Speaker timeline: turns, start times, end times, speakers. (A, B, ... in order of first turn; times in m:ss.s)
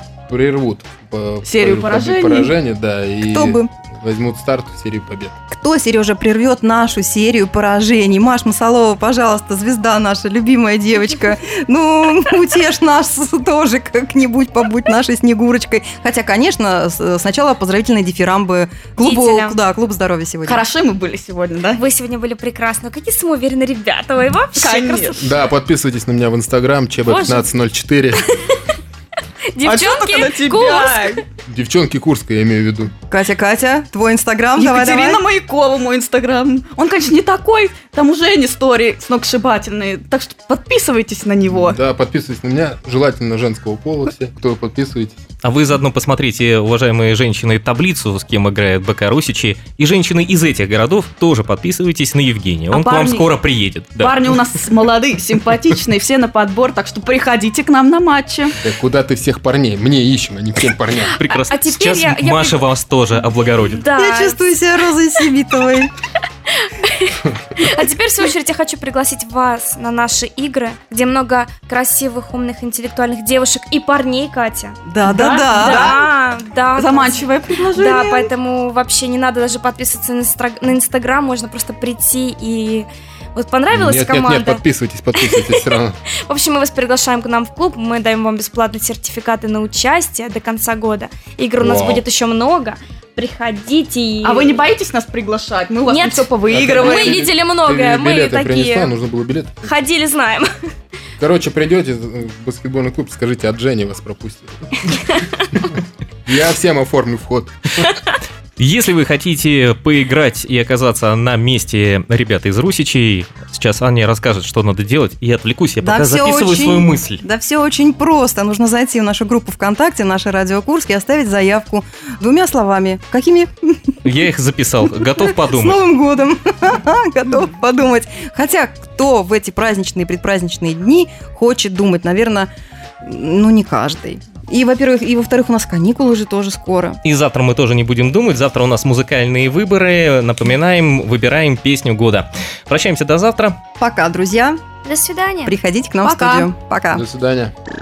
0:00.3-0:05.4 A
0:01.4-0:02.5 B
0:03.2-0:03.7 C
0:05.5-0:20.6 C
0:19.0-0:19.6 D
0:20.4-0:21.8 B
0:21.8-0:25.2 D
0:24.5-0:25.2 B
0:25.2-0:28.3 A
0:27.1-0:27.4 D
0:29.5-0:31.2 D
0:29.6-0:31.2 B
0:31.4-0:32.9 A
0:33.1-0:35.2 C
0:34.6-0:41.8 B
0:41.4-0:45.2 A
0:45.4-0:54.4 E
0:52.7-0:53.3 B
0:54.0-0:58.6 B
0:58.6-1:01.2 A
1:01.1-1:03.8 E
1:01.3-1:02.6 D
1:03.7-1:04.5 D
1:03.9-1:05.9 C
1:06.6-1:24.6 D
1:14.8-1:16.0 C
1:15.0-1:16.1 B
1:16.7-1:18.3 B
1:23.7-1:26.0 A
1:25.2-1:25.6 D
1:26.2-1:34.5 D
1:31.6-1:32.0 A
1:34.2-1:37.3 B
1:35.9-1:38.9 D
1:36.5-1:39.6 A
1:39.6-1:40.5 D
1:41.2-1:48.0 A
1:48.6-1:57.2 E
1:55.8-2:04.2 C
2:04.0-2:05.8 E
2:04.9-2:12.5 C
2:13.0-2:17.0 C
2:17.0-2:23.6 E
2:23.8-2:24.6 C
2:24.8-2:26.5 D
2:25.4-2:27.0 C
2:26.9-2:27.5 A